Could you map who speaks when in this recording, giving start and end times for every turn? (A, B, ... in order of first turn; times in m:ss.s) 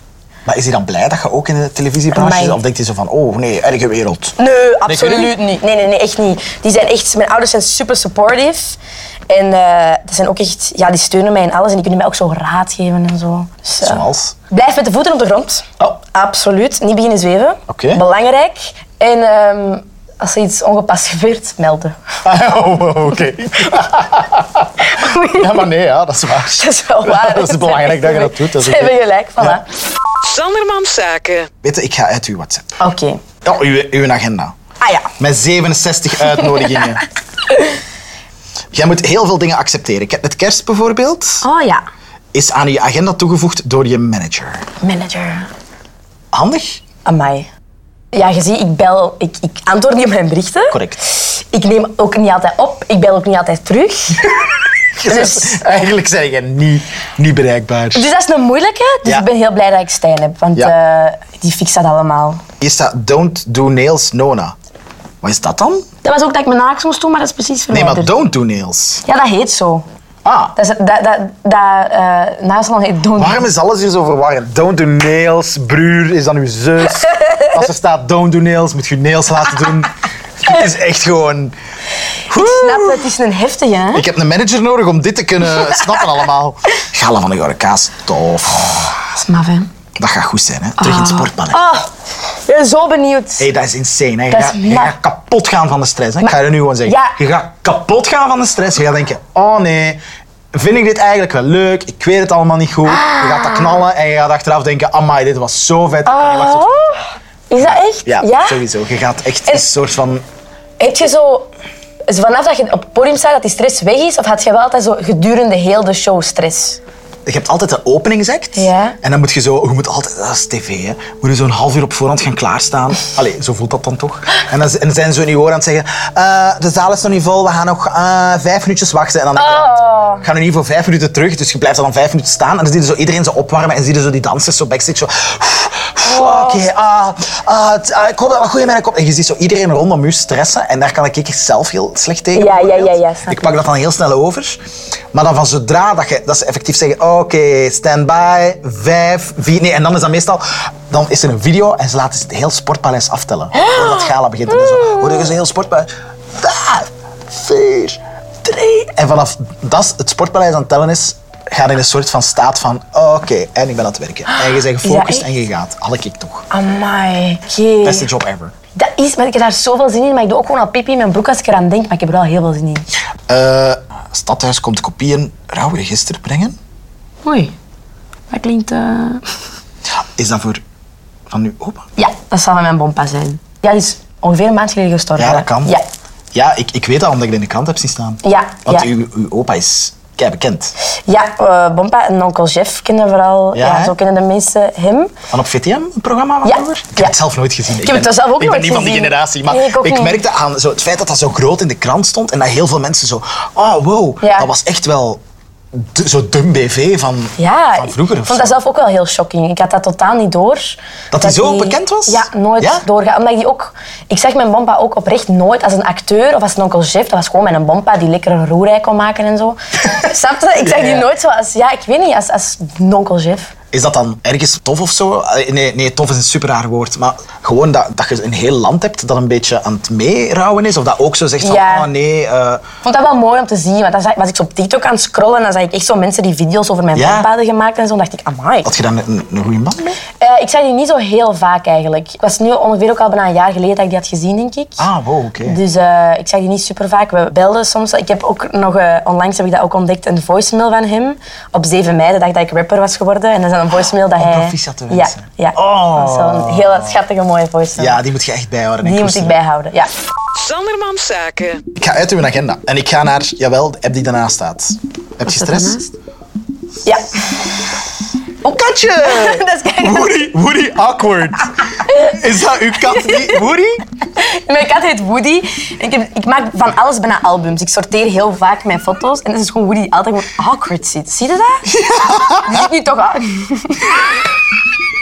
0:00.5-0:04.4 A
0:02.1-0:02.6 B
0:04.4-0:08.8 B
0:04.9-0:05.4 A
0:09.3-0:22.0 B
0:13.8-0:14.4 A
0:17.7-0:18.0 A
0:22.2-0:29.6 A
0:24.8-0:25.6 B
0:26.6-0:29.6 B
0:30.2-0:31.5 C
0:31.6-0:32.8 A
0:32.8-0:33.2 B
0:33.4-0:34.5 A
0:34.8-0:35.1 B
0:35.2-0:37.0 A
0:36.4-0:37.0 B
0:37.5-0:37.8 B
0:38.7-0:41.5 A
0:41.4-0:41.8 B
0:42.3-0:44.7 A
0:44.8-0:45.5 B
0:46.3-0:46.8 A
0:47.0-0:47.5 B
0:48.1-0:54.4 B
0:50.7-0:51.0 A
0:55.0-0:58.1 A
0:55.0-0:55.6 B
0:57.9-1:02.4 B
1:02.6-1:04.5 A
1:05.2-1:05.9 A
1:06.0-1:08.1 B
1:07.7-1:09.0 A
1:09.0-1:09.9 B
1:10.2-1:10.5 A
1:10.6-1:13.4 B
1:13.2-1:21.5 A
1:17.2-1:17.5 B
1:22.3-1:23.0 A
1:22.3-1:24.0 B
1:23.9-1:29.0 A
1:28.9-1:29.7 B
1:30.0-1:31.6 A
1:30.8-1:33.5 B
1:33.4-1:40.0 A
1:34.3-1:34.9 B
1:36.2-1:37.1 B
1:40.5-1:47.0 A
1:42.9-1:43.8 B
1:46.0-1:48.6 B
1:47.6-1:50.2 A
1:50.8-1:51.5 B
1:52.1-1:56.8 B
1:57.2-2:24.6 A
1:58.5-1:59.0 B
2:09.4-2:10.2 B
2:16.0-2:16.6 B
2:22.4-2:23.5 B
2:25.1-2:46.5 A
2:33.6-2:33.9 B
2:34.7-2:35.0 B
2:44.8-2:45.3 B
2:46.5-2:48.1 B
2:47.8-2:48.5 A
2:48.8-2:52.9 B
2:53.3-2:56.6 A
2:57.2-2:57.5 B
2:58.3-2:59.2 B
3:00.2-3:00.6 A
3:01.3-3:01.8 A
3:02.0-3:05.9 B
3:05.2-3:05.8 A
3:06.3-3:10.7 A
3:08.2-3:08.9 B
3:11.0-3:15.1 B
3:13.5-3:14.0 A
3:15.3-3:25.2 A
3:16.4-3:17.1 B
3:17.8-3:20.2 B
3:24.2-3:24.5 B
3:25.7-3:28.6 A
3:27.4-3:43.5 B
3:31.1-3:32.8 A
3:40.6-3:41.0 A
3:43.7-3:52.7 A
3:51.4-3:51.9 B
3:52.8-3:58.7 B
3:56.9-3:57.3 A
3:58.6-4:00.0 A
4:00.1-4:04.8 B
4:04.8-4:05.6 A
4:05.5-4:18.0 B
4:14.2-4:16.9 A
4:17.8-4:19.4 A
4:18.8-4:19.9 B
4:20.4-4:21.6 C
4:21.8-4:25.8 A
4:25.3-4:25.9 B
4:26.8-4:27.5 B
4:28.4-4:33.8 A
4:29.0-4:30.2 B
4:31.9-4:32.2 B
4:32.9-4:33.4 B
4:34.1-4:41.7 B
4:41.7-4:42.6 A
4:42.4-4:44.0 B